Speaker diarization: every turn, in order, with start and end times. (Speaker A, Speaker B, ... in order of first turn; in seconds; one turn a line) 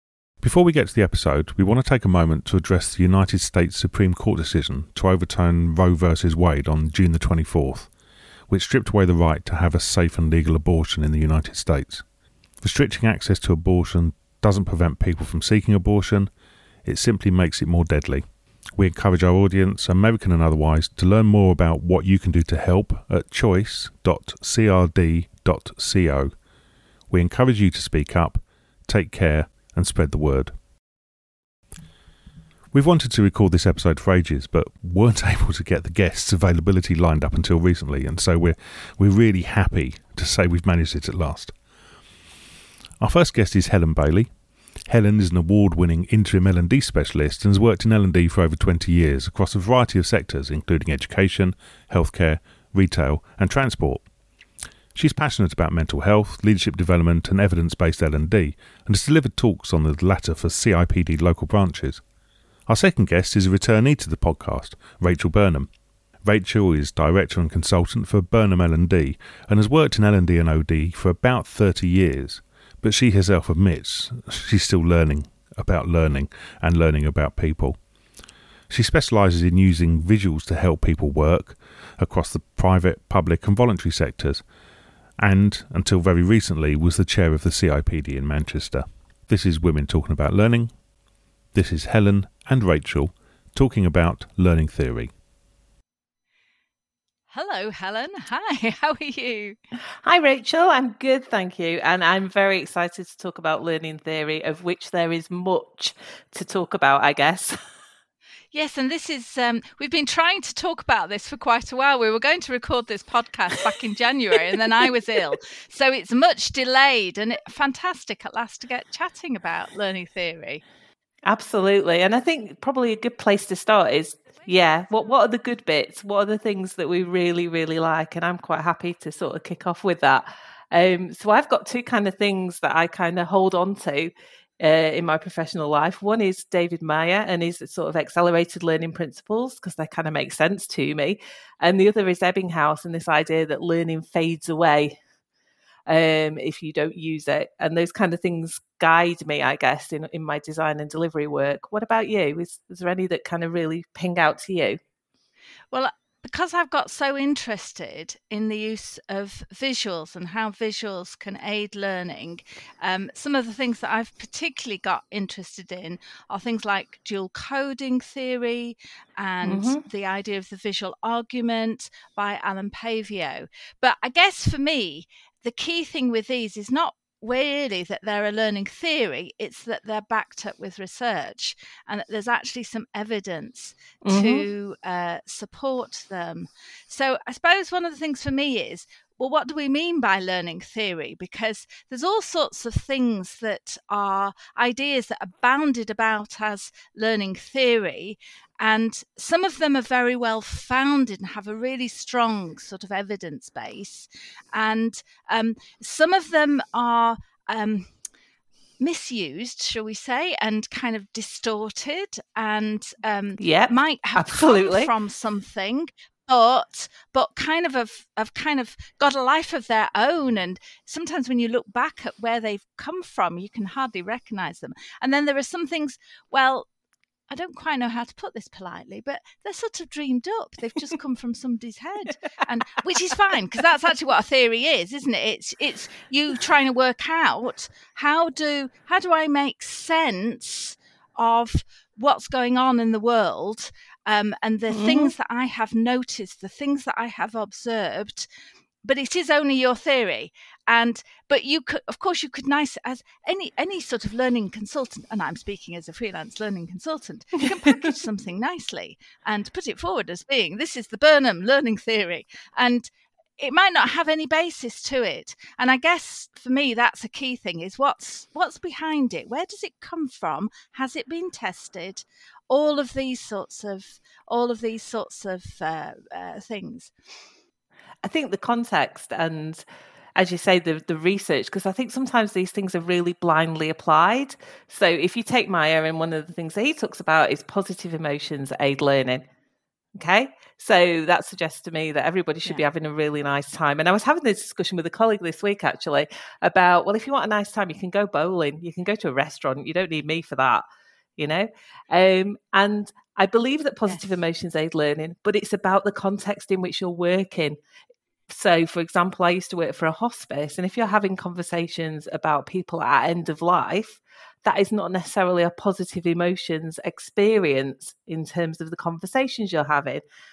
Speaker A: 0.4-7.9
Speaker A: 8.5-12.1
Speaker A: 12.6-16.3
Speaker A: 16.9-18.2
Speaker A: 18.8-26.3
Speaker A: 27.1-30.5
Speaker A: 32.7-41.5
Speaker A: 43.0-44.3
Speaker A: 44.9-54.0
Speaker A: 55.0-62.0
Speaker A: 62.7-65.7
Speaker A: 66.2-77.8
Speaker A: 78.7-84.4
Speaker A: 85.2-90.7
Speaker A: 91.5-95.1
Speaker B: 97.3-99.6
Speaker C: 100.0-107.6
Speaker B: 108.5-120.6
Speaker C: 114.5-114.9
Speaker C: 121.3-145.0
Speaker C: 145.9-154.8
Speaker B: 155.7-207.9
Speaker C: 169.4-169.8
Speaker C: 184.0-184.5
Speaker B: 208.8-226.7
Speaker C: 213.4-214.9
Speaker B: 227.3-248.3
Speaker C: 244.7-245.1
Speaker B: 248.8-276.9
Speaker C: 257.7-257.9
Speaker C: 278.0-279.6
Speaker C: 280.2-289.2
Speaker C: 289.9-300.6
Speaker C: 301.2-307.6
Speaker C: 308.3-320.0